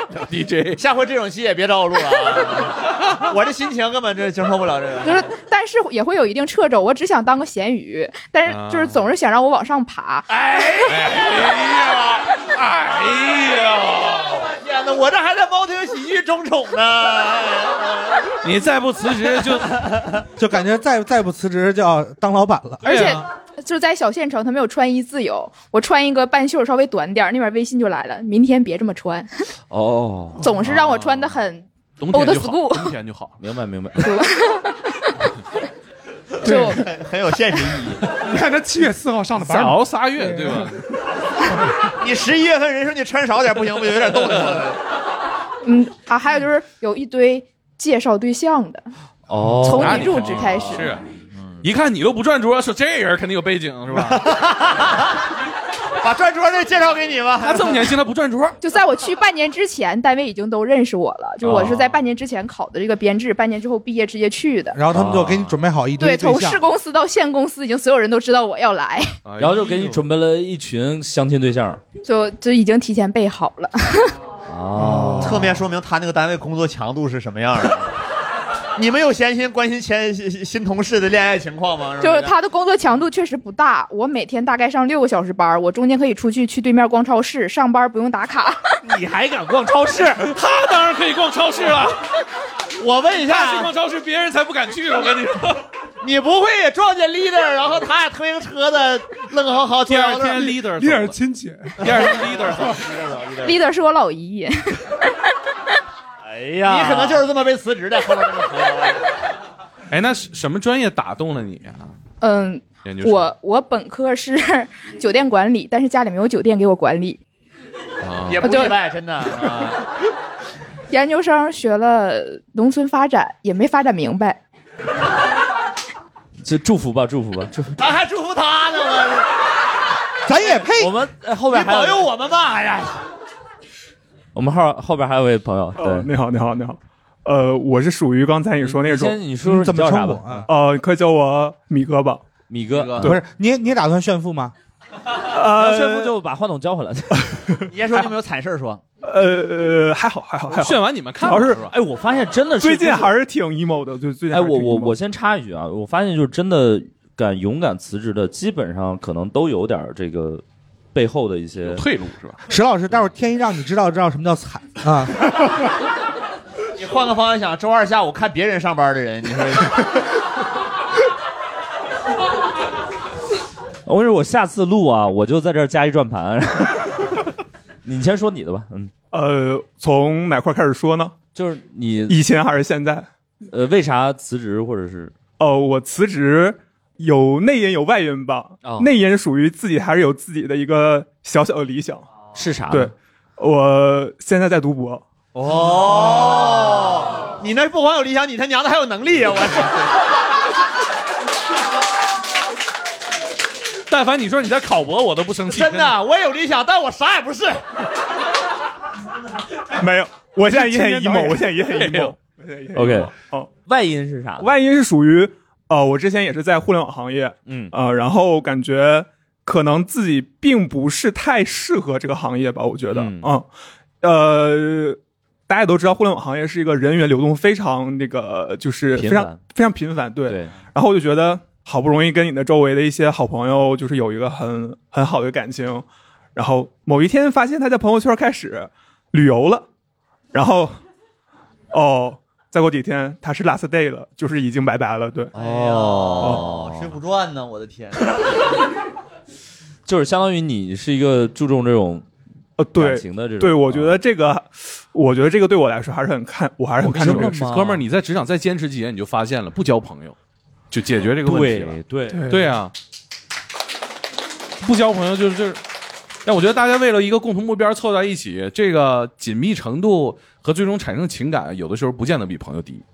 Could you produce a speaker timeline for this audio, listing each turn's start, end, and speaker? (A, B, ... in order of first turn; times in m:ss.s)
0:00.2-0:00.8 A
0:00.8-0:05.2 B
0:05.0-0:10.2 C
0:08.5-0:09.0 A
0:10.5-0:14.4 A
0:10.6-0:11.1 B
0:14.3-0:18.3 B
0:18.4-0:19.9 A
0:20.4-0:22.9 D
0:22.8-0:23.2 A
0:22.8-0:29.3 C
0:29.7-0:30.4 E
0:30.4-0:33.0 C
0:30.6-0:31.4 A
0:32.0-0:33.4 A
0:33.4-0:34.3 E
0:34.0-0:34.8 C
0:36.4-0:36.9 F
0:36.4-0:36.9 C
0:36.6-0:38.1 B
0:38.2-0:40.7 F
0:39.4-0:40.8 A
0:41.6-0:41.9 F
0:41.9-0:44.8 B
0:45.6-0:48.9 C
0:49.3-0:50.3 E
0:49.6-0:51.0 C
0:49.6-0:51.0 A
0:51.6-0:54.3 A
0:53.9-0:55.2 B
0:56.0-0:57.9 B
0:57.4-0:58.6 A
0:58.6-1:04.8 C
1:01.4-1:01.8 E
1:04.7-1:06.6 D
1:04.9-1:05.6 E
1:06.0-1:09.1 C
1:09.2-1:10.0 A
1:09.4-1:11.8 E
1:12.0-1:14.1 C
1:14.5-1:15.6 E
1:14.7-1:15.6 F
1:15.2-1:18.0 B
1:18.8-1:22.4 B
1:22.0-1:28.8 C
1:28.9-1:30.2 E
1:30.2-1:32.0 A
1:32.8-1:33.7 B
1:33.1-1:35.6 A
1:36.0-1:40.5 B
1:39.8-1:41.2 A
1:40.4-1:42.0 F
1:41.8-1:42.8 A
1:41.8-1:43.6 B
1:43.4-1:44.9 C
1:46.5-1:47.2 E
1:46.6-1:49.1 B
1:49.9-1:51.9 A
1:52.2-1:57.2 C
1:52.8-1:53.3 A
1:58.0-1:58.4 A
1:58.3-1:59.8 B
1:58.4-1:58.8 C
2:00.9-2:04.4 C
2:06.4-2:07.8 E
2:07.8-2:09.3 B
2:10.3-2:10.9 D
2:10.7-2:12.1 E
2:11.5-2:13.0 B
2:14.3-2:16.1 E
2:15.8-2:19.2 G
2:18.6-2:20.5 E
2:19.4-2:20.5 D
2:20.5-2:22.3 G
2:22.5-2:23.2 E
2:22.7-2:23.2 A
2:23.0-2:24.5 D
2:25.3-2:26.1 G
2:25.4-2:27.4 E
2:27.2-2:28.1 G
2:27.7-2:28.8 B
2:29.0-2:31.6 G
2:30.5-2:31.7 A
2:31.6-2:33.1 E
2:32.6-2:35.0 G
2:34.3-2:40.4 E
2:40.9-2:41.9 E
2:41.6-2:42.4 A
2:42.5-2:45.3 D
2:46.8-2:49.9 B
2:53.9-2:57.2 E
2:57.8-2:58.9 E
2:59.1-3:01.2 G
3:01.3-3:02.2 E
3:02.1-3:03.1 G
3:03.5-3:05.1 E
3:05.4-3:12.0 G
3:08.6-3:08.9 E
3:12.3-3:12.9 E
3:12.7-3:15.0 G
3:15.4-3:19.9 B
3:23.9-3:26.0 A
3:25.5-3:27.6 B
3:29.7-3:33.5 G
3:31.6-3:32.1 A
3:32.7-3:34.5 E
3:34.4-3:43.4 G
3:37.4-3:37.8 E
3:42.9-3:43.3 E
3:44.0-3:59.6 G
3:48.9-3:49.4 E
3:50.2-3:50.5 E
4:00.3-4:00.8 G
4:01.7-4:05.3 G
4:05.3-4:07.0 E
4:05.3-4:08.2 B
4:09.9-4:12.0 E
4:12.6-4:17.4 G
4:12.7-4:14.0 E
4:16.8-4:17.8 E
4:17.0-4:20.2 A
4:20.7-4:22.7 A
4:21.2-4:22.3 E
4:22.1-4:22.6 F
4:24.6-4:25.6 A
4:26.2-4:32.8 A